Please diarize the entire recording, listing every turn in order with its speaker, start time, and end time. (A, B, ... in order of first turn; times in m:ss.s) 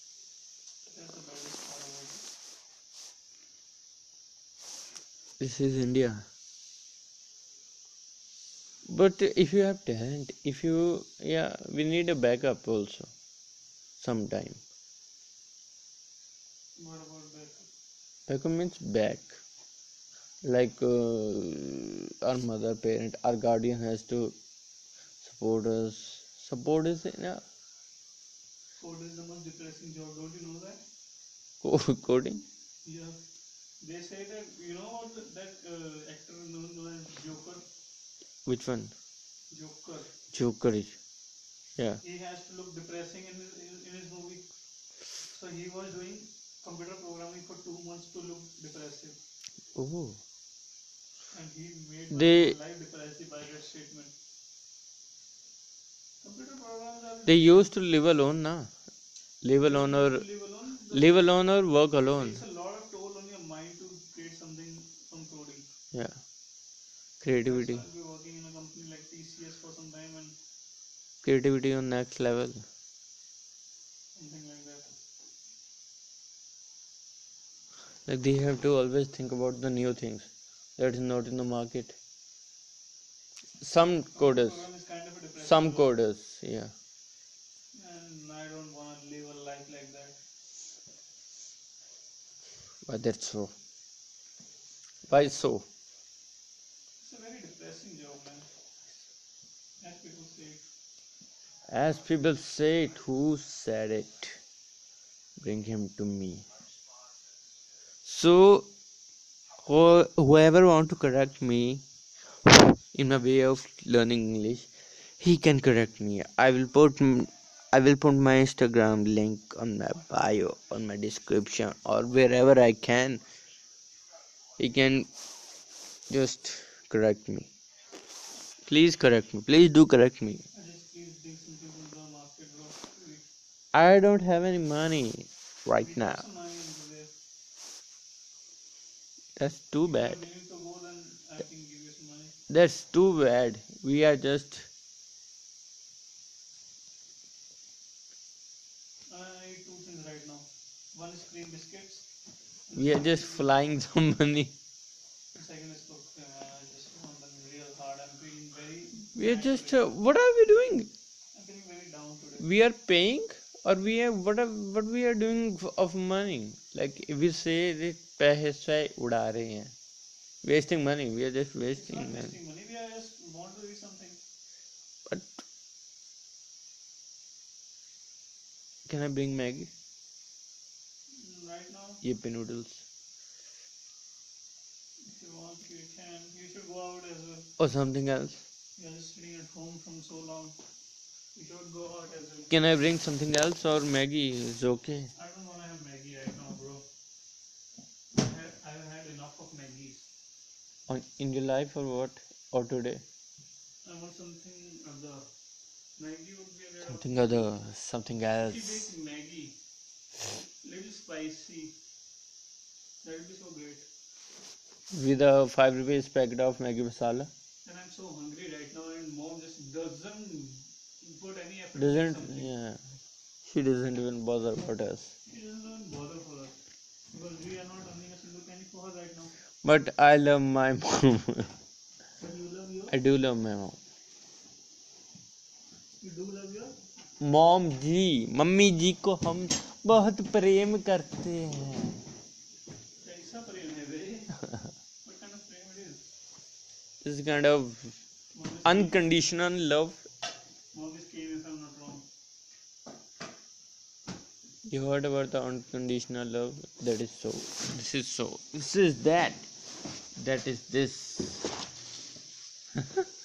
0:00.9-0:02.2 A
0:05.4-0:06.2 B
0:08.8-0:13.1 B
0:14.0-0:14.6 B
0:16.8-0:17.7 A
0:18.3-0:19.4 B
0:20.4-0:24.4 B
0:25.2-0:27.4 B
0:28.8-0:30.8 A
0:31.6-0:32.4 B
0:32.8-0:33.2 A
0:33.8-0:37.6 A
0:38.4-0:38.9 B
0:39.5-0:40.1 A
0:40.3-0:41.0 B
0:41.8-0:42.0 B
0:42.0-0:44.5 A
0:45.2-0:49.2 A
0:49.7-0:50.2 B
0:51.3-0:54.1 A
0:52.1-0:52.6 B
0:56.2-0:57.7 A
0:57.3-0:58.7 B
0:59.4-1:00.2 B
0:59.6-1:01.3 A
1:00.9-1:02.4 B
1:02.1-1:05.7 A
1:05.9-1:06.2 B
1:07.2-1:07.8 B
1:07.4-1:10.4 A
1:11.2-1:12.6 B
1:14.1-1:14.9 A
1:18.0-1:22.0 B
1:23.6-1:24.6 B
1:24.1-1:25.9 A
1:25.4-1:26.7 B
1:27.7-1:30.2 A
1:32.8-1:33.5 B
1:35.1-1:35.6 B
1:37.0-1:38.5 A
1:39.8-1:40.6 A
1:41.7-1:44.4 B
1:45.4-1:46.5 B
1:48.0-1:48.7 B
1:49.6-1:51.8 B
1:52.4-2:03.2 B
2:04.6-2:05.1 B
2:06.1-2:07.5 B
2:08.7-2:10.4 B
2:10.5-2:13.3 A
2:13.7-2:16.2 B
2:15.8-2:17.1 A
2:19.4-2:20.2 B
2:19.8-2:22.3 A
2:22.5-2:24.7 B
2:29.1-2:32.0 A
2:32.7-2:33.5 A
2:32.7-2:34.5 B
2:35.3-2:39.9 A
2:39.1-2:40.9 B
2:41.3-2:42.5 A
2:42.4-2:49.7 B
2:50.4-2:52.3 B
2:51.7-2:54.2 A
2:55.1-2:55.4 B
2:58.8-2:59.7 B
3:01.1-3:02.0 A
3:02.0-3:02.8 B
3:05.1-3:07.5 A
3:07.6-3:08.4 B
3:08.8-3:10.6 A
3:11.3-3:12.5 A
3:12.5-3:15.1 B
3:15.1-3:16.8 A
3:18.1-3:20.1 A
3:20.9-3:23.0 B
3:23.8-3:25.3 A
3:26.0-3:27.5 A
3:26.8-3:28.9 B
3:28.4-3:29.6 A
3:30.6-3:31.8 A
3:33.0-3:33.9 A
3:34.9-3:37.3 B
3:37.6-3:42.5 A
3:41.7-3:42.8 B
3:43.4-3:45.1 B
3:45.3-3:46.6 A
3:47.1-3:49.3 A
3:49.6-3:51.5 B
3:52.2-3:52.9 A
3:52.9-3:53.8 B
3:56.0-3:56.8 A
3:57.2-4:02.0 B
4:03.0-4:04.4 A
4:05.0-4:06.0 A
4:07.0-4:08.0 B
4:08.3-4:09.0 A
4:08.6-4:10.0 B
4:10.7-4:12.1 A
4:14.6-4:19.4 B
4:20.2-4:21.6 B